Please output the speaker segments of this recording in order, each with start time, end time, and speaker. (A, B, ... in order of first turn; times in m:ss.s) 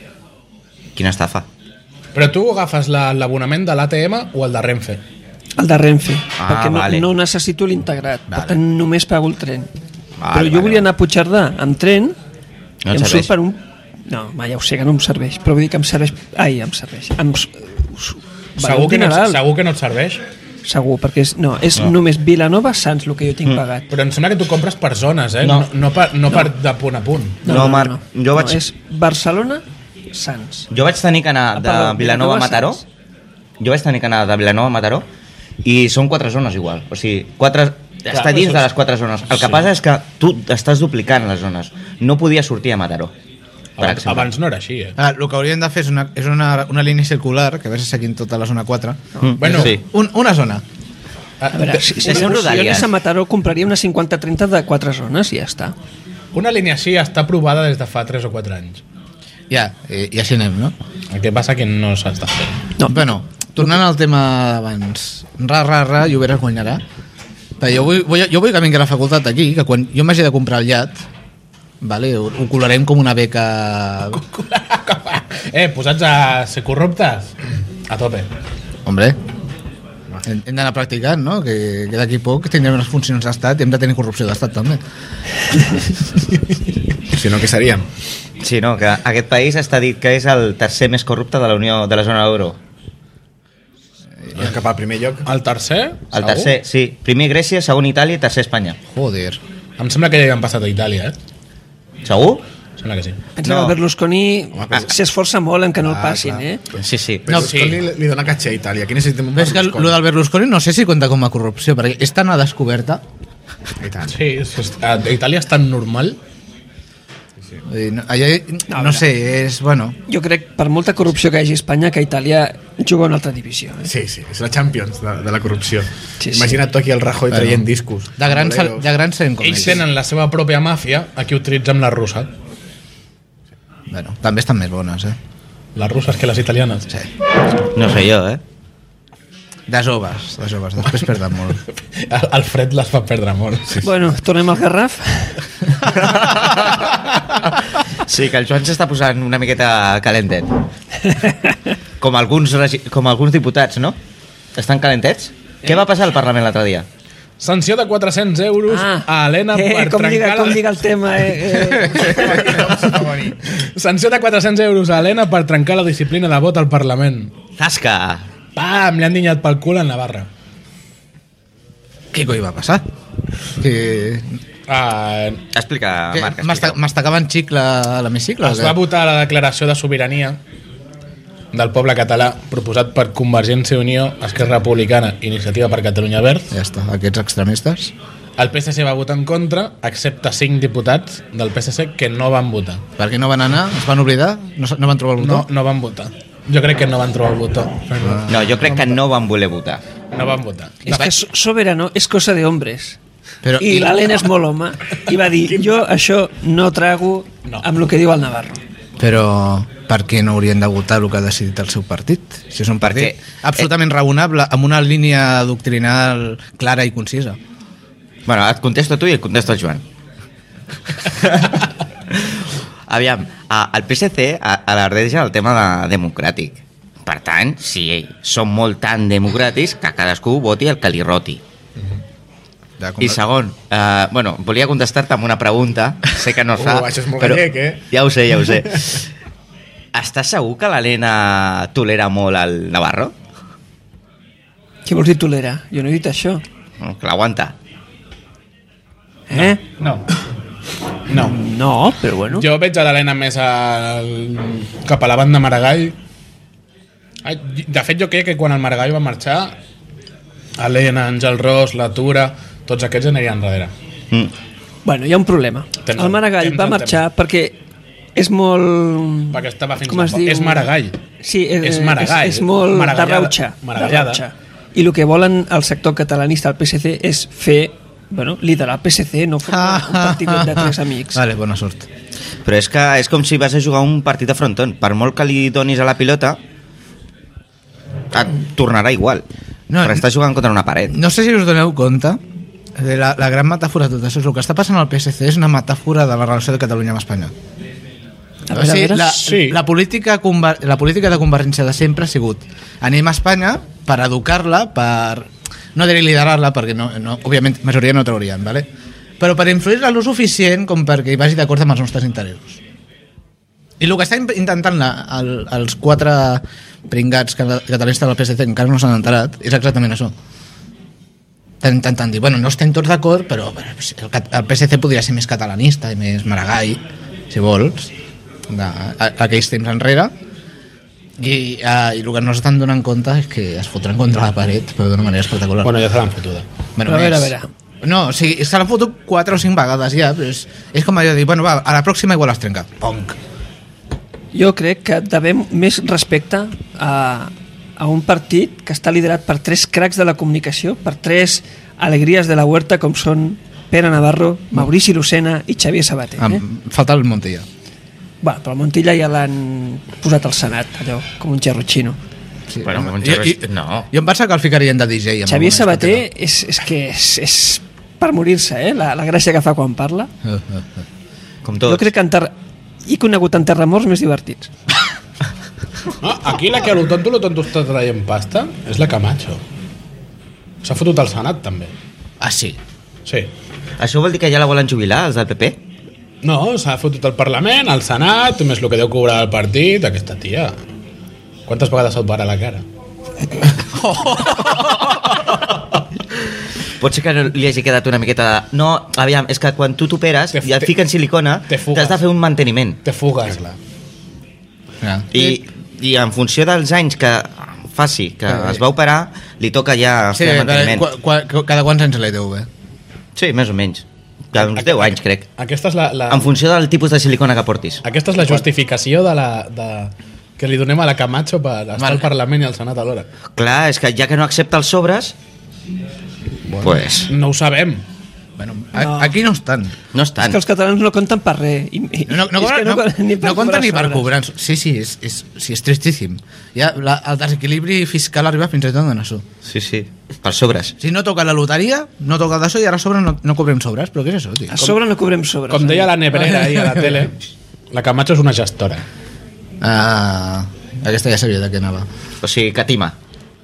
0:01.0-0:01.5 A
0:02.2-0:05.0 B
0:05.6-0:09.7 C
0:06.4-0:07.1 A
0:10.2-0:10.8 A
0:10.3-0:12.2 C
0:12.8-0:13.3 A
0:12.9-0:19.4 C
0:18.6-0:20.2 B
0:20.6-0:23.9 C
0:23.9-0:27.6 B
0:25.4-0:25.7 A
0:27.4-0:30.7 C
0:27.5-0:28.6 A
0:30.7-0:32.8 A
0:31.6-0:32.8 C
0:33.6-0:35.1 A
0:35.6-0:43.1 A
0:38.1-0:38.7 B
0:39.4-0:39.6 B
0:43.8-0:45.0 B
0:43.8-0:44.3 A
0:45.0-0:50.6 D
0:49.2-0:49.8 A
0:49.4-0:49.8 B
0:51.4-0:52.6 B
0:51.5-0:55.8 C
0:52.0-0:52.9 A
0:56.3-0:58.8 B
0:59.5-1:00.7 D
1:01.1-1:02.6 B
1:02.8-1:03.1 C
1:02.9-1:06.8 D
1:07.6-1:11.0 D
1:11.8-1:14.2 D
1:14.1-1:17.4 B
1:17.9-1:18.3 B
1:18.8-1:19.2 D
1:20.2-1:24.8 D
1:27.1-1:27.9 E
1:28.4-1:32.6 A
1:34.4-1:35.3 E
1:35.2-1:36.5 B
1:36.1-1:38.8 A
1:38.9-1:39.4 D
1:39.8-1:41.2 B
1:42.0-1:42.4 A
1:42.8-1:43.2 B
1:43.4-1:46.6 C
1:43.4-1:43.8 A
1:44.6-1:44.9 E
1:46.8-1:47.4 A
1:47.2-1:50.0 E
1:47.3-1:47.6 D
1:47.4-1:47.8 B
1:49.3-1:53.0 D
1:53.8-1:54.2 E
1:54.1-1:56.2 B
1:57.7-2:00.0 D
1:58.7-1:59.1 C
2:00.1-2:03.9 C
2:03.8-2:08.8 E
2:06.2-2:06.6 C
2:07.3-2:07.7 D
2:08.2-2:09.8 D
2:09.4-2:12.3 B
2:13.9-2:15.2 D
2:15.8-2:16.9 B
2:17.6-2:18.4 A
2:19.7-2:21.6 D
2:22.0-2:23.9 B
2:23.8-2:25.4 C
2:25.9-2:26.9 A
2:27.9-2:30.6 A
2:31.1-2:31.6 C
2:32.0-2:34.0 A
2:34.6-2:36.9 A
2:37.4-2:40.8 B
2:38.7-2:42.5 C
2:42.0-2:43.4 E
2:42.6-2:47.3 B
2:47.6-2:48.3 A
2:48.6-2:50.3 B
2:52.1-2:52.9 D
2:53.6-2:54.4 D
2:54.7-2:55.4 B
2:55.5-2:56.8 A
2:56.1-2:58.8 D
2:58.4-3:00.4 B
3:01.5-3:06.5 B
3:06.5-3:07.9 D
3:08.4-3:12.8 B
3:13.0-3:15.5 D
3:15.2-3:18.8 B
3:18.0-3:18.9 D
3:18.3-3:19.8 A
3:20.1-3:20.8 B
3:20.9-3:23.0 C
3:20.9-3:21.1 D
3:23.4-3:24.2 D
3:23.6-3:28.6 C
3:29.0-3:37.4 D
3:32.8-3:33.6 A
3:38.3-3:39.8 A
3:41.0-3:51.4 A
3:52.8-3:53.2 D
3:53.0-3:59.0 A
3:56.5-3:57.8 E
3:59.9-4:03.1 A
4:04.9-4:06.4 C
4:06.8-4:07.6 A
4:09.3-4:09.6 C
4:09.3-4:10.0 B
4:11.1-4:11.4 B
4:11.2-4:12.5 C
4:12.3-4:16.0 B
4:17.2-4:19.6 B
4:20.6-4:23.7 B
4:24.8-4:27.6 C
4:25.8-4:27.0 B
4:28.2-4:30.7 C
4:29.3-4:31.0 B
4:31.2-4:41.2 C
4:31.6-4:34.2 B
4:39.5-4:41.9 D
4:42.4-4:46.4 A
4:48.1-4:49.2 A
4:49.7-4:50.1 D
4:49.8-4:51.0 A
4:50.9-4:52.2 D
4:52.8-4:57.3 D
4:58.5-4:59.1 C
4:58.5-5:08.7 D
4:59.1-4:59.6 B
5:09.2-5:12.6 D
5:13.8-5:20.1 D
5:21.6-5:27.9 D
5:28.5-5:30.1 D
5:31.2-5:35.7 D
5:35.6-5:36.5 B
5:36.8-5:43.2 D
5:36.8-5:37.5 C
5:44.3-5:56.4 C
5:56.2-5:57.5 D
5:58.2-6:02.0 C
6:02.5-6:06.1 D
6:02.6-6:03.9 A
6:05.3-6:10.1 C
6:10.2-6:10.8 D
6:11.4-6:11.9 A
6:11.6-6:12.3 C
6:12.8-6:14.5 C
6:16.0-6:19.4 B
6:20.6-6:21.7 B
6:22.2-6:22.6 D
6:23.8-6:25.6 A
6:26.2-6:30.6 B
6:31.5-6:32.6 B
6:36.8-6:42.8 A
6:40.3-6:40.7 B
6:41.5-6:42.0 B
6:42.8-6:43.6 B
6:44.8-6:45.4 D
6:45.1-6:50.8 A
6:48.3-6:48.6 D
6:50.1-6:52.5 D
6:53.2-6:55.2 A
6:54.4-6:56.3 B
6:56.1-6:57.8 A
6:57.8-7:03.1 B
7:01.8-7:02.1 D
7:03.4-7:05.2 A
7:06.6-7:07.1 A
7:07.1-7:07.8 B
7:08.4-7:09.8 D
7:08.8-7:09.1 C
7:09.9-7:10.4 A
7:10.2-7:14.1 C
7:12.1-7:19.2 D
7:19.4-7:20.8 A
7:20.8-7:24.6 D
7:24.5-7:26.0 C
7:25.5-7:27.2 B
7:26.2-7:26.8 D
7:27.7-7:28.8 B
7:29.6-7:31.9 D
7:32.2-7:33.0 A